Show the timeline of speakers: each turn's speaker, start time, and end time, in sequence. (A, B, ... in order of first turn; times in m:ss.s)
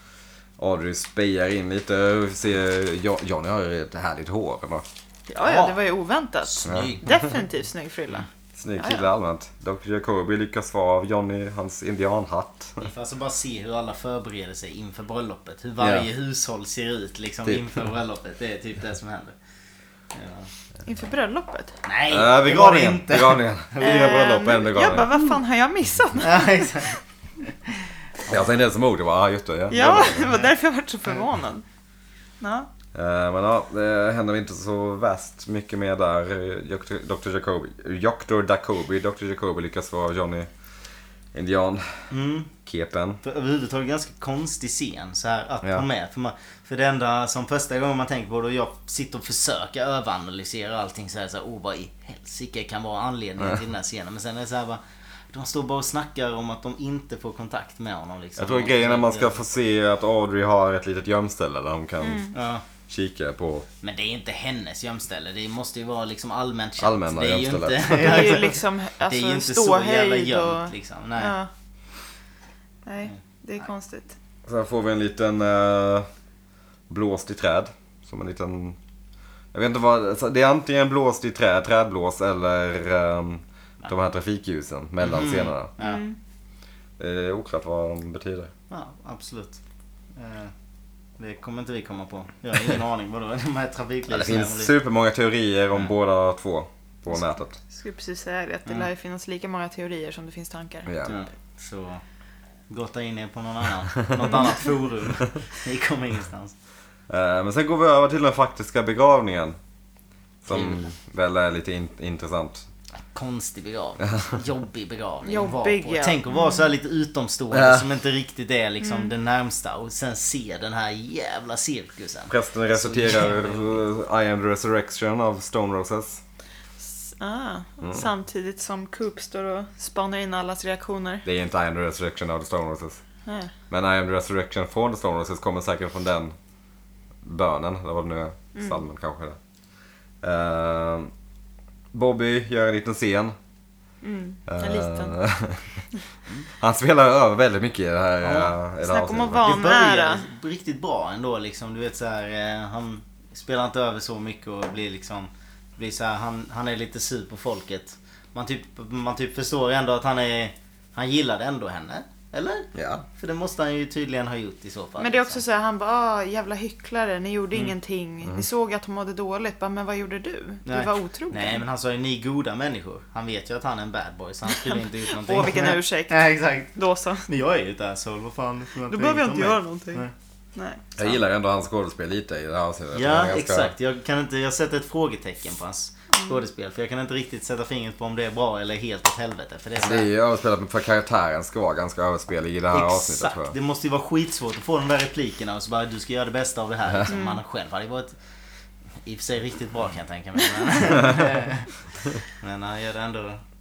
0:00.6-0:04.8 A
0:05.3-0:05.8 B
0:05.4-0:08.3 C
0:06.4-0:07.3 B
0:06.7-0:06.9 A
0:08.6-0:12.8 A
0:08.8-0:09.1 C
0:12.8-0:19.4 B
0:15.8-0:16.1 A
0:17.4-0:17.7 A
0:20.1-0:20.5 B
0:20.9-0:21.8 C
0:21.8-0:24.2 B
0:22.1-0:25.1 A
0:23.8-0:27.0 C
0:26.2-0:27.0 B
0:28.3-0:30.4 A
0:29.7-0:31.6 C
0:32.4-0:32.7 C
0:32.9-0:40.5 A
0:41.3-0:42.0 A
0:42.1-0:42.5 B
0:42.6-0:43.2 A
0:43.2-0:59.4 B
0:58.4-1:02.3 A
1:02.0-1:02.4 C
1:02.3-1:02.6 B
1:02.9-1:03.7 A
1:03.8-1:11.4 B
1:06.8-1:08.4 A
1:07.9-1:11.5 C
1:12.8-1:14.2 C
1:14.5-1:16.1 A
1:16.9-1:18.8 A
1:19.5-1:25.7 A
1:25.0-1:26.1 B
1:25.8-1:26.2 C
1:27.0-1:28.5 A
1:28.7-1:29.6 B
1:30.2-1:30.5 B
1:31.2-1:34.7 B
1:34.1-1:37.6 A
1:37.7-1:40.9 C
1:40.9-1:41.2 A
1:41.0-1:42.0 B
1:42.7-1:46.5 B
1:47.1-1:49.6 A
1:50.4-1:52.7 A
1:50.5-1:50.9 B
1:53.1-2:03.8 B
1:55.2-1:56.7 C
1:57.5-1:57.9 A
1:58.8-1:59.1 C
2:02.3-2:06.2 A
2:06.8-2:11.2 C
2:07.8-2:08.1 A
2:11.2-2:13.0 A
2:13.3-2:13.5 C
2:13.7-2:16.3 A
2:17.2-2:19.4 A
2:18.6-2:18.8 C
2:20.2-2:21.1 A
2:21.9-2:23.4 A
2:24.0-2:25.2 C
2:24.5-2:25.8 A
2:26.5-2:29.6 A
2:28.2-2:28.6 B
2:28.8-2:30.3 C
2:29.4-2:45.4 B
2:42.8-2:43.0 A
2:45.0-2:51.6 C
2:50.7-3:00.1 B
2:54.5-2:57.3 C
2:58.9-3:00.9 C
3:01.0-3:03.7 A
3:02.9-3:10.1 B
3:09.8-3:13.6 A
3:12.7-3:18.2 B
3:17.1-3:17.4 C
3:19.0-3:23.4 B